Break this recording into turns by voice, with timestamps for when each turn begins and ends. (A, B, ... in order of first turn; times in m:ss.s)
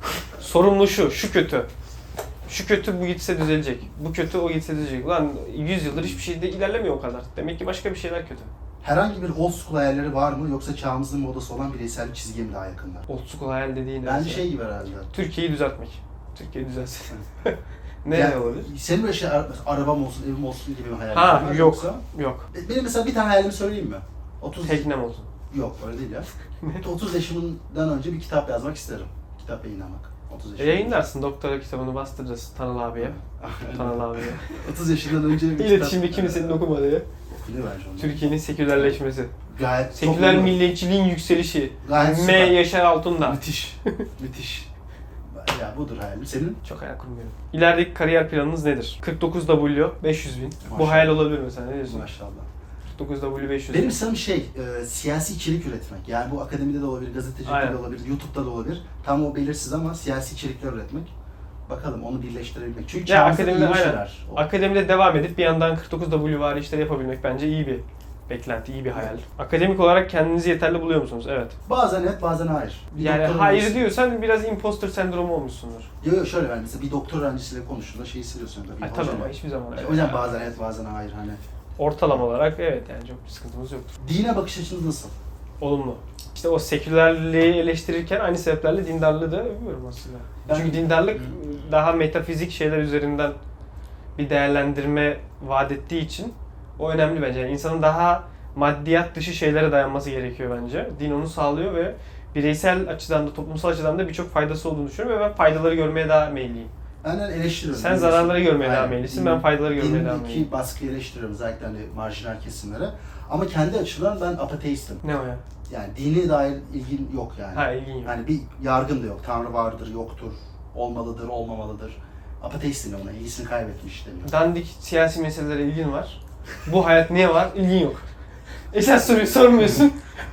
0:00.4-0:01.7 A
0:02.5-0:08.5 A
0:05.9-0:06.2 B
0:08.8-0:13.1 B
0:13.1-0:14.4 A
0:14.0-0:15.1 B
0:15.1-0:18.7 A
0:18.1-0:24.9 B
0:21.1-0:22.5 A
0:24.6-0:25.3 A
0:25.5-0:31.0 B
0:30.6-0:33.2 A
0:33.0-0:36.6 B
0:33.7-0:34.5 A
0:35.5-0:37.0 A
0:37.4-0:38.9 B
0:38.0-0:39.3 A
0:39.5-0:40.6 B
0:40.0-0:44.0 A
0:41.8-0:42.7 B
0:43.2-0:44.7 B
0:45.3-0:46.6 B
0:46.6-0:52.0 A
0:50.6-0:51.2 B
0:51.8-0:52.5 B
0:52.9-0:54.0 A
0:53.7-1:01.1 B
0:57.4-0:57.8 A
1:01.7-1:04.4 B
1:03.0-1:11.6 A
1:11.7-1:13.8 B
1:13.0-1:15.9 A
1:16.0-1:21.4 B
1:18.8-1:20.5 A
1:21.8-1:23.9 A
1:24.0-1:25.1 B
1:25.6-1:33.4 A
1:30.4-1:31.4 B
1:34.2-1:46.7 A
1:47.0-1:55.0 B
1:47.7-1:50.5 A
1:55.0-1:55.4 A
1:55.7-2:04.3 B
1:57.5-1:58.1 A
2:04.2-2:08.1 A
2:08.7-2:10.0 A